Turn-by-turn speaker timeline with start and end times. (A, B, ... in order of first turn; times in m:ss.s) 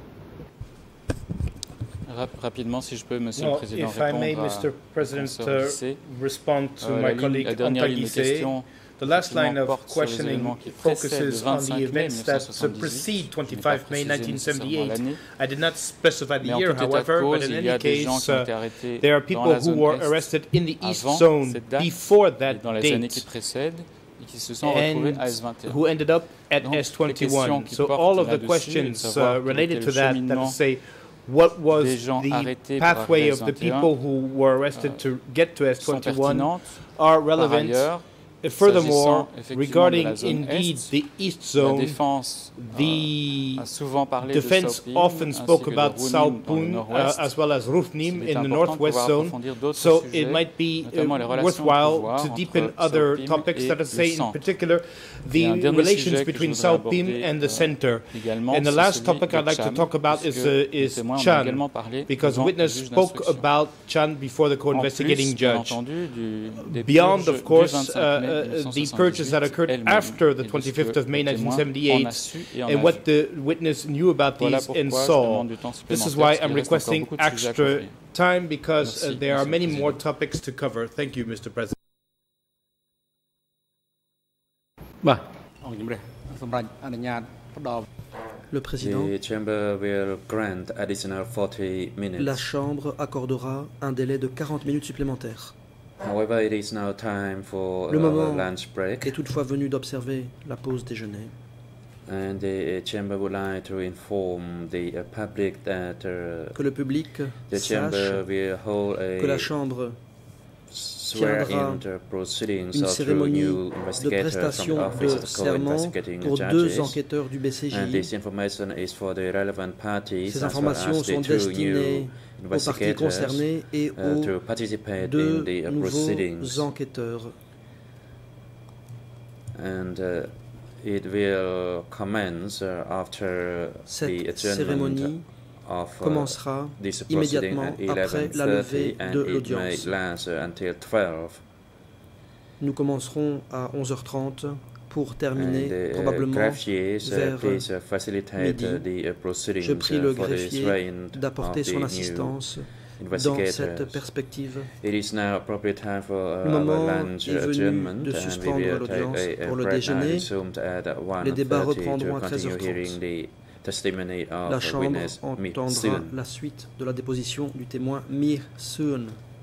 0:02.0-0:06.0 A
0:03.4-0:23.3 B
0:06.8-0:15.2 A
0:16.4-0:25.8 A
0:24.6-0:43.7 B
0:26.6-0:30.6 A
0:31.7-0:33.9 A
0:34.8-0:35.1 A
0:35.8-0:41.0 A
0:41.6-0:47.4 A
0:44.3-1:05.8 B
0:48.0-0:54.4 A
0:55.3-1:03.5 A
1:04.7-1:13.1 A
1:06.6-1:21.8 B
1:14.4-1:18.0 A
1:18.8-1:20.0 A
1:25.0-1:27.9 C
1:28.5-1:29.1 D
1:28.8-1:32.5 E
1:32.2-1:35.6 D
1:36.0-1:39.2 E
1:37.9-1:41.3 D
1:42.1-1:46.6 E
1:46.5-1:48.6 D
1:47.5-1:49.5 E
1:49.2-1:50.0 D
1:50.7-1:57.2 E
1:51.1-1:51.9 D
1:52.7-1:58.1 D
1:57.7-2:06.7 E
2:00.2-2:07.4 D
2:09.5-2:21.4 E
2:13.9-2:15.3 D
2:16.0-2:20.0 D
2:22.6-2:27.7 D
2:25.3-2:46.2 E
2:28.3-2:34.7 D
2:36.4-2:40.3 D
2:41.2-2:43.0 D
2:44.4-2:49.2 D